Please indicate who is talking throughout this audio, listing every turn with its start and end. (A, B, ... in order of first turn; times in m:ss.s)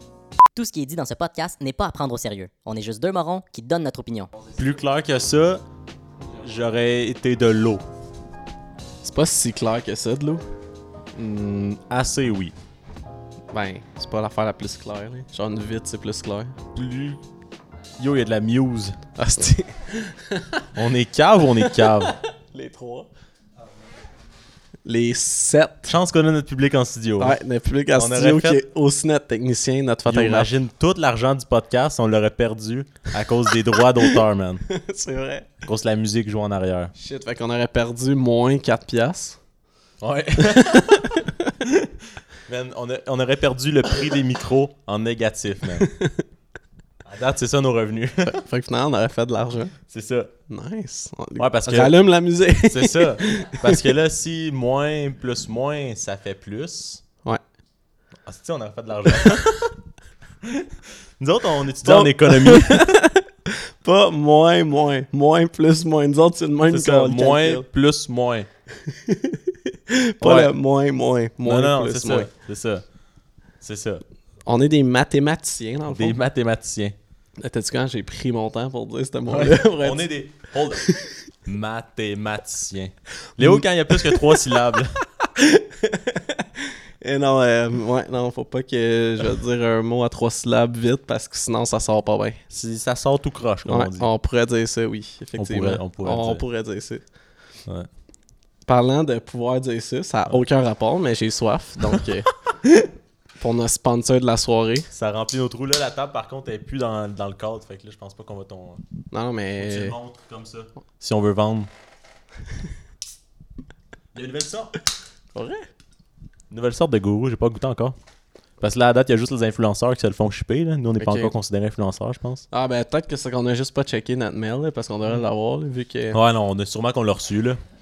0:00.5-0:04.3 A
0:04.6-0:05.6 B
0:06.4-0:07.8 B
0:09.0-0:10.4 C
0:11.2-0:12.5 B
0:13.5-0:16.6 C
0:16.8-0:17.2 B
0:18.0-0:19.0 B
0:19.2-0:20.6 C
0:20.8-0:22.2 B
0:21.6-0:23.1 C
0:24.8-0:26.0 C
0:25.9-0:27.4 B
0:27.2-0:30.6 C
0:27.9-0:28.6 B
0:30.1-0:34.6 B
0:34.7-0:35.6 C
0:35.6-0:36.9 B
0:37.0-0:39.4 C
0:40.0-0:41.9 B
0:40.4-0:41.3 C
0:42.5-0:45.9 B
0:45.8-0:46.2 C
0:47.1-0:48.4 B
0:48.3-0:49.7 C
0:49.9-0:50.3 B
0:50.5-0:53.8 C
0:51.4-0:52.0 B
0:52.6-0:57.0 B
0:58.3-0:59.7 B
1:01.2-1:03.0 B
1:01.8-1:07.7 C
1:06.7-1:08.5 B
1:08.9-1:12.3 C
1:10.2-1:10.5 B
1:11.4-1:12.8 B
1:13.6-1:14.0 B
1:14.5-1:16.2 C
1:15.9-1:17.0 B
1:17.4-1:20.1 C
1:19.3-1:20.9 B
1:20.8-1:21.1 C
1:21.4-1:25.0 B
1:23.4-1:24.3 C
1:25.4-1:32.4 C
1:32.5-1:34.1 B
1:33.7-1:37.0 C
1:35.4-1:36.4 B
1:38.7-1:42.9 C
1:41.8-1:42.0 B
1:43.4-1:44.9 C
1:44.9-1:48.8 B
1:49.1-1:50.0 C
1:49.6-1:51.7 B
1:54.1-1:54.7 B
1:55.3-1:55.6 C
1:56.5-1:58.0 B
1:58.6-2:02.4 B
2:01.0-2:01.4 C
2:02.5-2:06.2 C
2:06.1-2:07.6 B